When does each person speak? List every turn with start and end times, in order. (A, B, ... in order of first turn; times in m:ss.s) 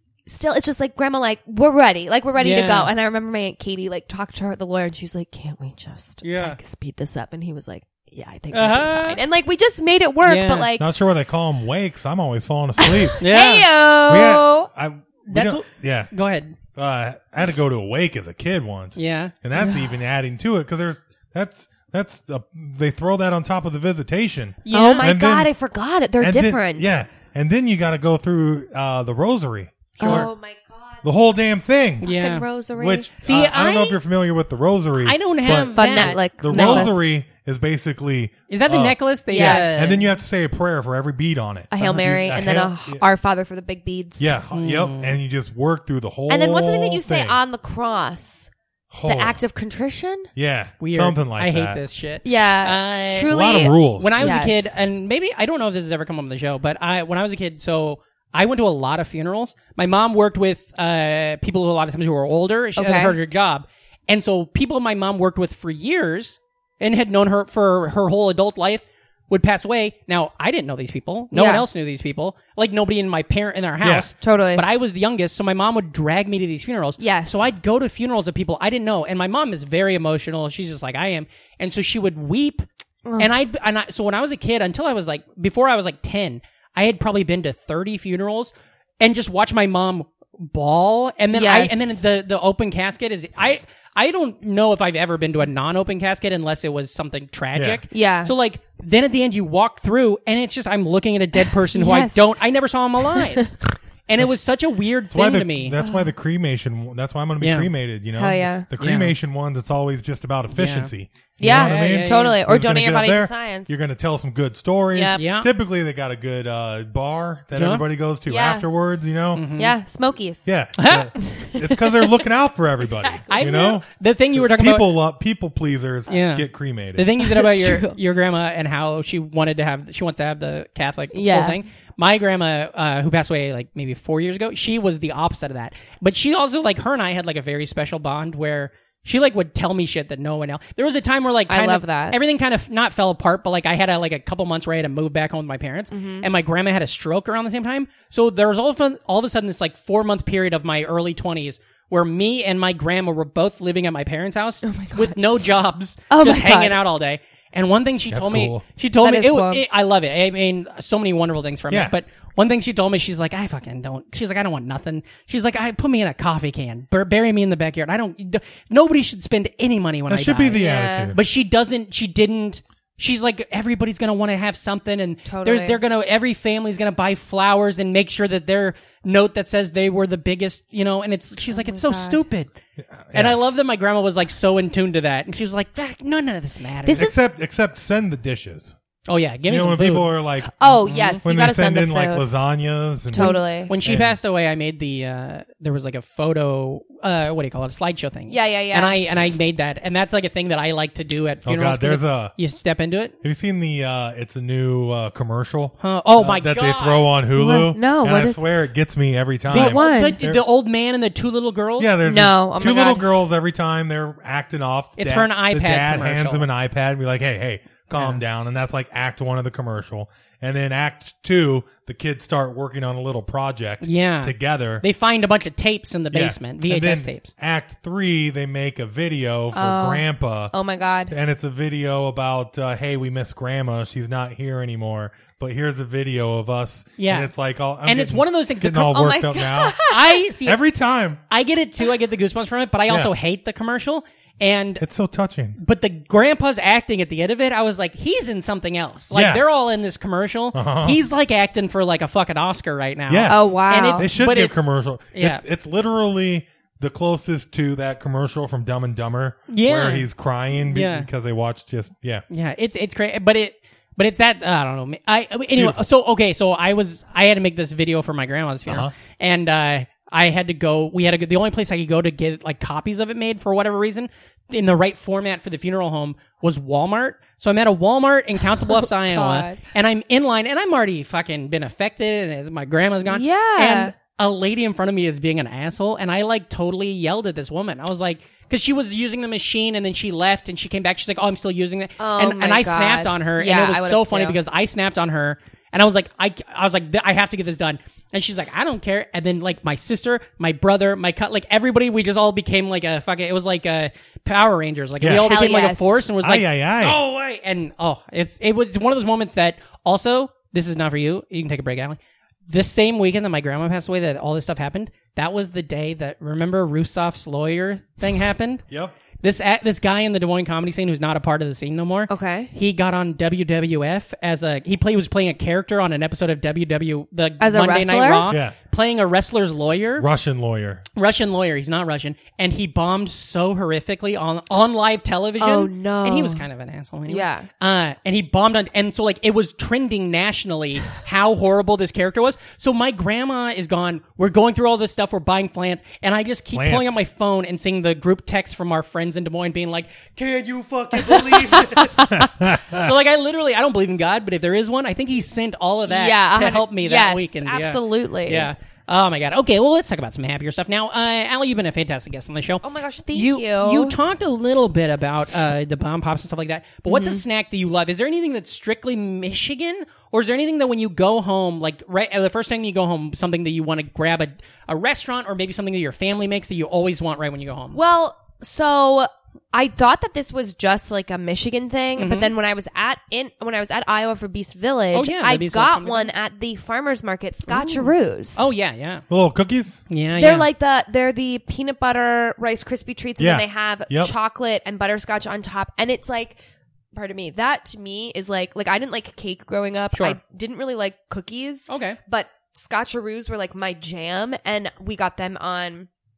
0:00.3-0:10.9 A
0:02.4-0:02.9 B
0:06.2-0:06.6 B
0:08.5-0:09.2 B
0:10.2-0:10.7 B
0:10.8-0:13.2 C
0:12.8-0:14.7 A
0:13.2-0:13.7 B
0:14.1-0:16.1 C
0:15.3-0:16.6 B
0:16.8-0:25.5 C
0:19.0-0:19.3 B
0:19.6-0:19.9 A
0:24.6-0:25.1 B
0:24.7-0:27.0 A
0:26.2-0:30.3 C
0:30.0-0:31.0 A
0:31.0-0:32.1 C
0:32.0-0:32.5 B
0:32.0-0:33.1 A
0:32.8-0:43.0 C
0:33.2-0:34.0 B
0:35.0-0:36.9 B
0:35.5-0:37.0 A
0:38.5-0:40.1 B
0:39.3-0:40.0 A
0:41.7-0:44.3 A
0:44.2-0:47.4 C
0:44.5-0:45.2 B
0:46.3-0:48.5 A
0:48.9-0:49.4 C
0:49.1-0:50.3 A
0:50.4-0:51.8 C
0:50.8-1:22.7 B
0:52.2-0:54.6 A
0:53.3-0:54.5 C
1:02.8-1:03.2 A
1:11.3-1:11.6 A
1:13.8-1:14.1 C
1:14.2-1:14.6 A
1:17.0-1:17.5 A
1:23.0-1:23.3 A
1:23.2-1:43.5 B
1:31.3-1:32.0 A
1:37.6-1:37.8 C
1:37.9-1:38.3 A
1:41.7-1:42.2 A
1:43.2-1:43.5 A
1:44.1-1:45.8 B
1:45.1-1:59.5 C
1:45.8-1:46.1 A
1:47.4-1:47.7 B
1:48.2-1:48.7 A
1:48.8-1:49.1 B
1:50.5-1:52.4 B
1:51.4-1:53.7 A
1:54.9-1:55.2 A
1:55.2-1:55.5 B
1:57.5-1:57.8 B
1:58.3-1:58.6 A
1:59.3-1:59.7 B
1:59.6-2:00.5 A
2:00.4-2:07.1 C
2:00.8-2:01.1 B
2:01.2-2:02.2 A
2:03.3-2:04.9 B
2:06.1-3:02.5 B
2:07.2-2:08.0 A
2:11.1-2:11.6 A
2:21.5-2:22.2 A
2:25.9-2:26.3 A
2:34.6-2:35.2 A
2:36.1-2:36.8 A
2:38.1-2:38.6 C
2:39.0-2:39.6 A
2:41.7-2:42.0 C
2:50.1-2:51.2 C
2:50.5-2:51.1 A
2:55.3-2:55.8 A
3:01.5-3:02.2 A
3:02.8-3:03.4 C
3:03.1-3:07.1 B
3:06.8-3:07.2 A
3:07.0-3:08.8 C
3:09.1-3:10.1 B
3:09.5-3:14.2 C
3:10.6-3:12.2 A
3:10.8-3:11.2 B
3:13.1-3:13.7 A
3:13.1-3:23.1 B
3:18.3-3:19.0 A
3:21.4-3:22.3 C
3:23.2-3:30.4 C
3:25.8-3:27.1 B
3:27.4-3:28.4 A
3:29.5-3:31.9 B
3:29.5-3:30.2 A
3:31.8-3:44.8 C
3:32.0-3:33.1 A
3:35.0-3:36.4 B
3:37.9-3:38.2 B
3:43.8-3:47.3 B
3:46.1-3:50.5 C
3:49.5-3:51.1 A
3:51.1-3:59.8 C
3:57.0-3:57.3 B
3:57.8-3:59.0 B
3:58.8-4:00.2 A
3:59.9-4:00.6 B
4:00.4-4:01.2 C
4:01.3-4:04.8 B
4:02.9-4:03.1 C
4:04.8-4:05.6 C
4:05.6-4:14.6 B
4:09.1-4:09.4 C
4:10.5-4:11.0 C
4:13.1-4:22.2 C
4:13.3-4:14.1 A
4:15.1-4:15.4 B
4:19.5-4:20.1 B
4:20.7-4:21.1 B
4:22.3-5:18.6 B
4:28.7-4:28.9 C
4:39.1-4:39.6 A
4:43.1-4:43.9 A
4:52.0-4:54.4 A
5:05.0-5:05.4 C
5:05.1-5:06.0 A
5:06.2-5:07.0 C
5:18.7-5:18.9 C
5:19.2-5:30.1 B
5:22.1-5:22.5 A
5:27.4-5:28.3 A
5:28.3-5:28.6 C
5:30.0-5:30.8 C
5:31.0-5:50.1 B
5:35.4-5:36.4 A
5:37.1-5:37.5 A
5:46.5-5:47.0 C
5:50.2-5:52.9 C
5:50.9-5:52.2 A
5:52.7-6:17.8 B
5:55.9-5:58.5 A
6:02.6-6:04.0 A
6:06.9-6:07.2 A
6:17.7-6:28.4 A
6:22.0-6:22.3 B
6:24.9-6:26.1 B
6:27.5-6:29.0 B
6:29.1-6:29.8 C
6:29.9-6:30.5 B
6:30.2-6:36.4 A
6:33.2-6:34.2 C
6:36.9-6:45.9 A
6:39.9-6:40.2 B
6:41.7-6:42.0 B